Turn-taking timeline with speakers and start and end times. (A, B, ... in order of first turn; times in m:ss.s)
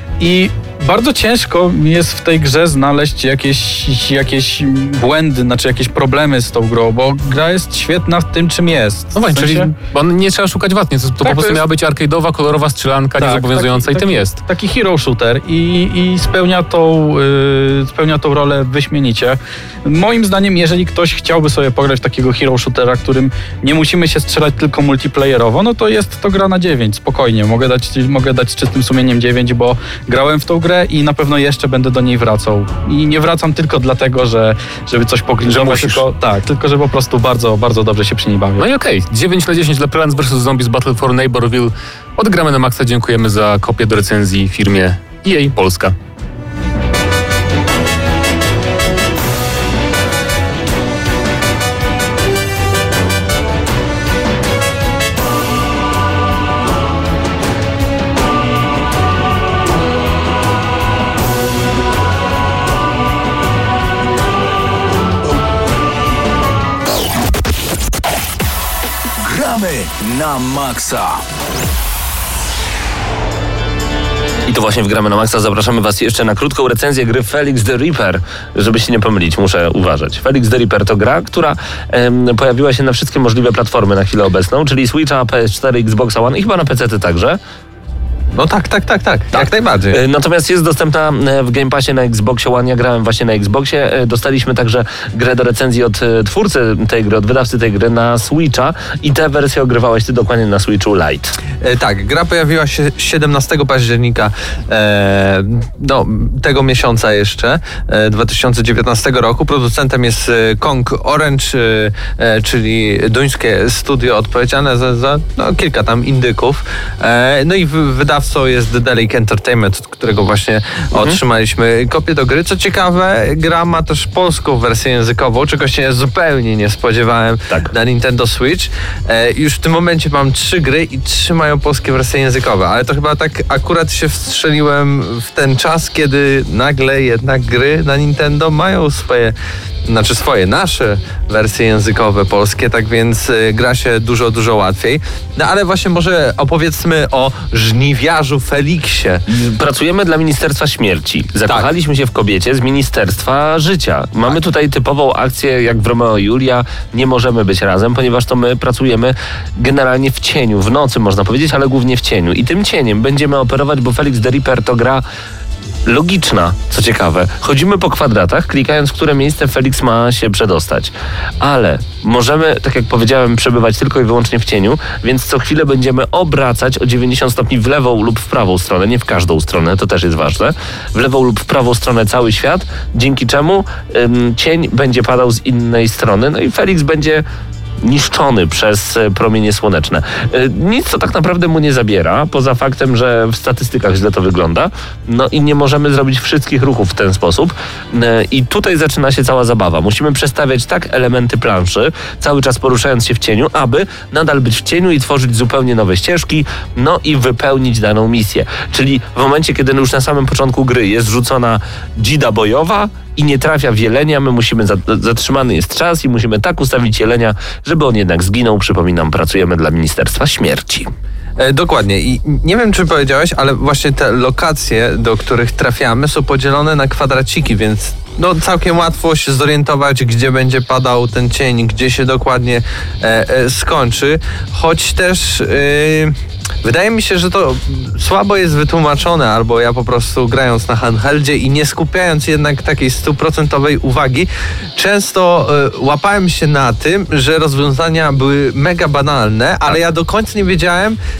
0:00.2-0:09.7 A
0:09.1-0:14.4 B
0:11.2-0:11.6 A
0:13.2-0:38.6 A
0:35.4-0:36.0 B
0:38.6-0:45.9 B
1:09.2-1:11.2 C
1:14.4-1:27.4 D
1:28.3-1:30.0 E
1:29.3-1:41.4 D
1:41.6-2:19.3 E
2:00.9-2:01.2 D
2:19.8-2:29.2 E
2:29.3-2:45.0 D
2:45.8-3:07.2 D
3:07.8-3:40.9 D
3:41.4-4:11.0 E